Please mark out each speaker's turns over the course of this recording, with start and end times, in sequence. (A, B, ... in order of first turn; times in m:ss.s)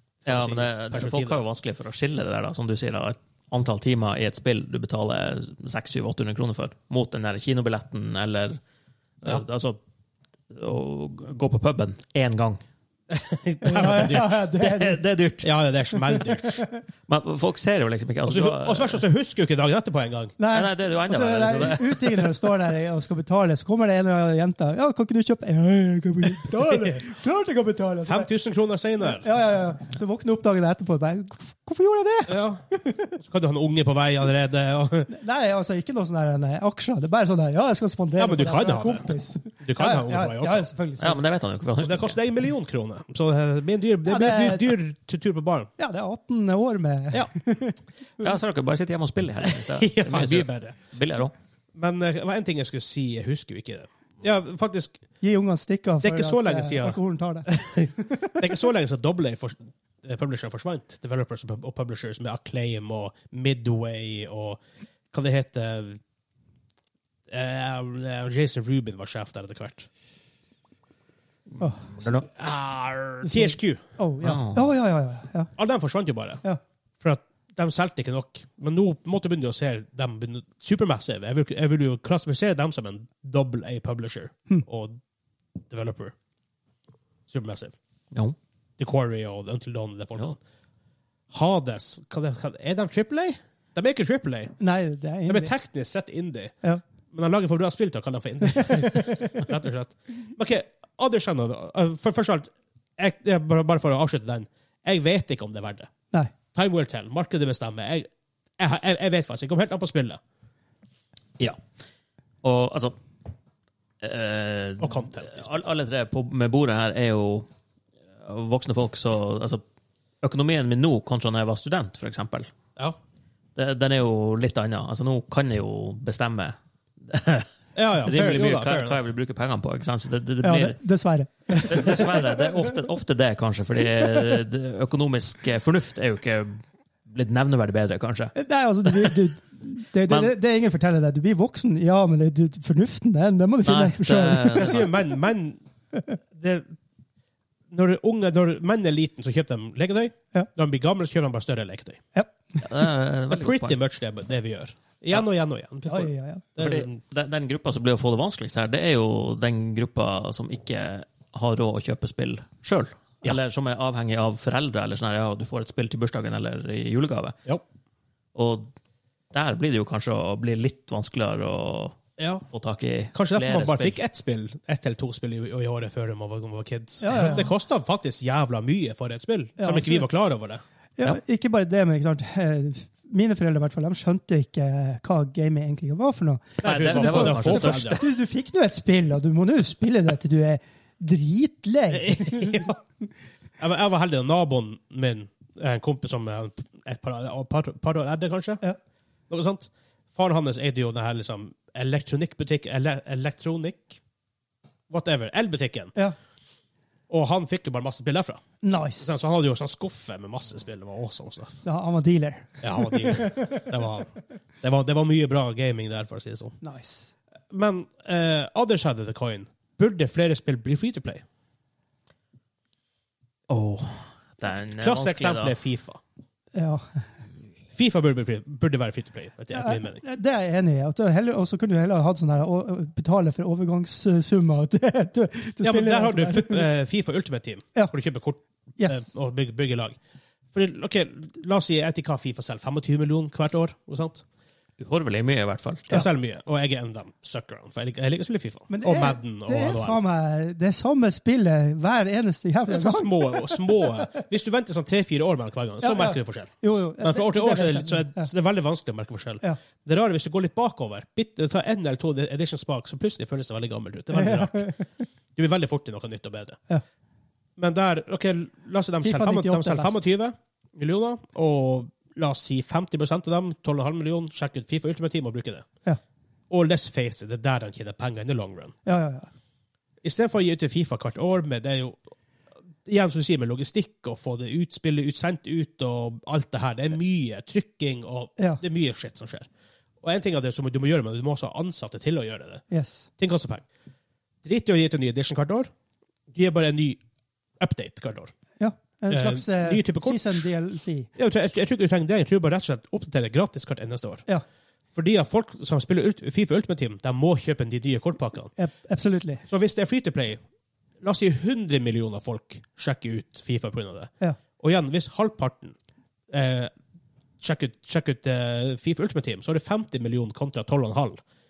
0:00.2-0:01.4 A
0:00.2-0:08.6 B
0:09.2-0:09.8 B
0:10.5-0:12.6 B
0:13.1-0:14.5 A
0:13.6-0:15.0 C
0:14.6-0:15.5 B
0:15.4-0:16.6 A
0:16.1-0:16.8 C
0:17.1-0:19.0 B
0:18.2-0:20.3 A
0:20.4-0:28.3 C
0:20.5-0:22.5 B
0:26.6-0:27.0 A
0:28.0-0:29.3 A
0:29.0-0:33.1 C
0:32.3-0:32.6 A
0:33.1-0:35.1 A
0:35.1-0:41.2 C
0:38.2-0:40.6 A
0:41.0-0:42.2 B
0:41.8-0:45.7 A
0:44.0-0:44.8 C
0:45.8-0:48.2 C
0:48.2-0:51.3 B
0:49.4-0:50.9 A
0:51.7-0:55.0 A
0:55.2-0:58.4 C
0:56.0-1:04.6 A
1:05.1-1:06.0 A
1:07.3-1:09.9 A
1:11.6-1:11.9 C
1:11.9-1:12.3 B
1:12.2-1:13.8 A
1:13.2-1:15.5 C
1:14.2-1:14.7 B
1:15.6-1:16.4 A
1:17.0-1:25.0 A
1:25.7-1:26.1 A
1:27.3-1:27.7 A
1:28.8-1:30.4 A
1:31.3-1:34.6 A
1:34.6-1:35.5 C
1:35.3-1:36.5 A
1:37.1-1:45.9 A
1:38.5-1:39.4 C
1:46.5-1:50.2 A
1:52.4-1:53.0 B
1:54.0-1:57.5 B
1:54.8-1:55.6 A
1:58.2-1:59.6 B
2:00.2-2:02.5 B
2:03.6-2:07.5 B
2:07.8-2:09.0 A
2:08.0-2:10.8 B
2:10.4-2:12.6 C
2:11.6-2:18.3 B
2:18.4-2:24.7 C
2:18.8-2:19.2 B
2:20.1-2:20.3 B
2:23.6-2:24.9 B
2:24.5-2:25.6 A
2:25.9-2:26.2 C
2:26.3-2:26.8 A
2:27.7-2:32.0 A
2:32.1-2:32.6 C
2:32.6-2:33.8 B
2:33.3-2:37.0 A
2:35.8-2:36.5 C
2:36.6-2:47.3 B
2:48.3-2:48.7 B
2:49.3-2:52.0 B
2:52.2-2:52.4 A
2:52.5-2:54.0 B
2:53.1-3:00.6 A
2:57.0-2:57.5 C
2:59.6-3:00.0 C
3:01.0-3:12.6 C
3:06.6-3:08.0 A
3:06.6-3:08.0 B
3:11.9-3:12.8 A
3:13.6-3:18.6 A
3:19.3-3:24.0 A
3:24.9-3:25.9 A
3:27.1-3:28.4 A
3:28.6-3:29.2 C
3:29.0-3:31.6 A
3:31.6-3:33.7 C
3:32.6-3:34.1 A
3:34.6-3:36.6 A
3:36.6-3:37.1 C
3:37.5-3:41.2 A
3:43.5-3:45.5 B
3:44.8-3:46.0 A
3:46.5-3:47.0 C
3:47.7-3:50.0 A
3:49.5-3:56.6 C
3:55.6-4:00.0 A
3:58.8-3:59.1 C
4:00.5-4:04.2 A
4:04.8-4:06.0 B
4:05.9-4:10.0 A
4:08.7-4:13.9 C
4:12.7-4:24.7 A
4:15.8-4:18.3 C
4:24.1-4:24.8 C
4:25.4-4:26.6 A
4:27.6-4:35.7 A
4:29.0-4:30.0 C
4:36.5-4:38.7 A
4:38.8-4:39.3 C
4:40.0-4:42.0 A
4:42.8-4:49.5 A
4:50.0-4:52.6 A
4:52.7-4:53.1 C
4:53.2-4:53.6 A
4:54.4-4:55.7 A
4:56.3-4:57.0 A
4:57.6-4:58.3 A
4:58.6-5:01.1 C
4:59.1-5:00.5 A
5:01.2-5:04.2 A
5:04.9-5:08.5 A
5:08.6-5:09.4 C
5:09.5-5:10.4 A
5:11.0-5:15.7 A
5:16.3-5:16.7 A
5:17.4-5:21.2 A